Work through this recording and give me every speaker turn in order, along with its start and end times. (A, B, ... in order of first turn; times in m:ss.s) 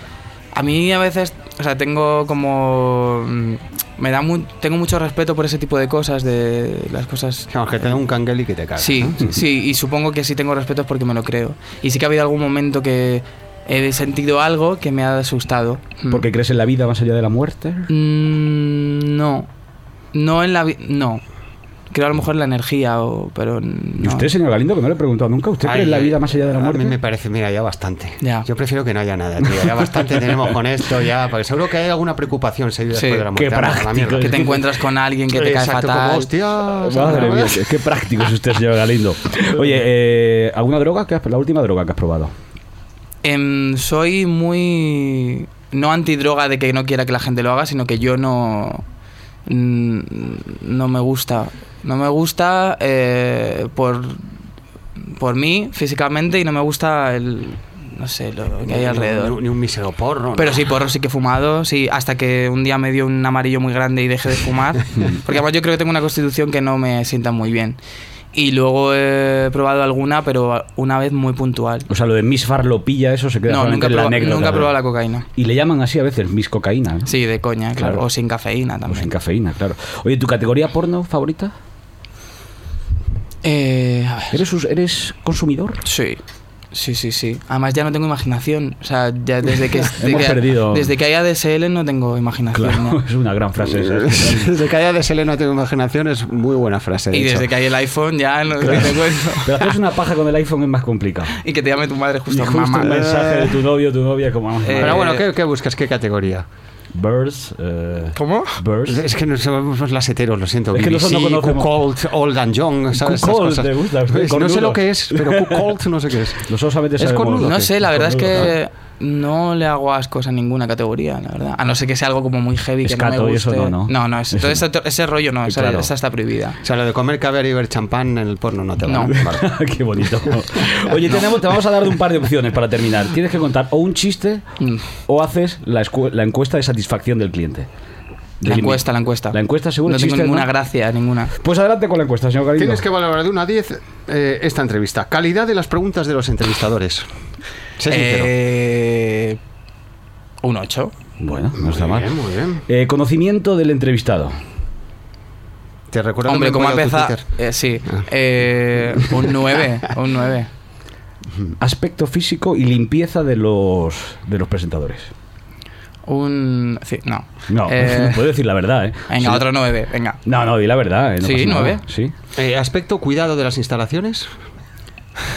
0:00.5-0:07.5 A
0:07.5-0:09.3 B
0:08.8-0:16.2 A
0:16.1-0:17.9 C
0:17.9-0:19.5 A
0:20.1-0:21.2 A
0:21.9-0:24.3 A
0:24.0-0:27.0 C
0:25.6-0:34.5 B
0:28.2-0:28.5 A
0:32.9-0:33.2 A
0:33.3-0:34.6 C
0:34.2-0:36.3 A
0:35.3-0:37.7 B
0:36.8-0:42.3 C
0:37.0-0:37.4 A
0:43.2-0:48.8 A
0:49.4-0:54.2 A
0:55.0-0:59.4 A
0:58.6-1:00.6 B
1:00.4-1:07.8 A
1:08.3-1:11.9 A
1:11.9-1:14.8 C
1:13.5-1:15.2 A
1:15.3-1:17.1 C
1:17.1-1:19.1 A
1:17.7-1:18.0 C
1:18.9-1:21.5 C
1:23.4-1:24.4 A
1:24.3-1:25.8 C
1:25.8-1:26.2 A
1:26.7-1:33.0 A
1:30.0-1:30.9 C
1:32.5-1:34.5 C
1:34.1-1:37.5 B
1:37.1-1:39.8 A
1:38.6-1:41.4 C
1:41.4-1:43.0 A
1:42.3-1:45.1 C
1:42.8-1:43.5 B
1:44.6-1:45.2 A
1:44.8-1:46.4 B
1:46.9-1:49.0 C
1:48.1-1:48.6 A
1:48.9-1:58.5 B
1:50.7-1:51.7 C
1:52.9-1:55.8 C
1:56.4-1:58.5 C
1:57.4-2:06.6 A
2:02.8-2:04.7 C
2:05.4-2:05.9 C
2:06.6-2:09.5 B
2:08.8-2:09.1 A
2:09.1-2:14.4 C
2:14.6-2:14.8 A
2:15.1-2:17.7 C
2:18.4-2:20.5 C
2:18.4-2:21.3 A
2:21.4-2:22.8 C
2:22.6-2:27.1 B
2:27.8-2:28.3 B
2:27.9-2:29.4 A
2:30.4-2:30.9 A
2:31.2-2:34.4 C
2:31.6-2:32.6 B
2:35.9-2:37.2 B
2:36.2-2:40.5 A
2:41.6-2:45.1 C
2:46.0-2:48.2 A
2:47.5-2:49.5 C
2:49.1-2:50.2 A
2:50.2-2:52.1 C
2:51.2-2:51.8 A
2:52.4-2:54.3 B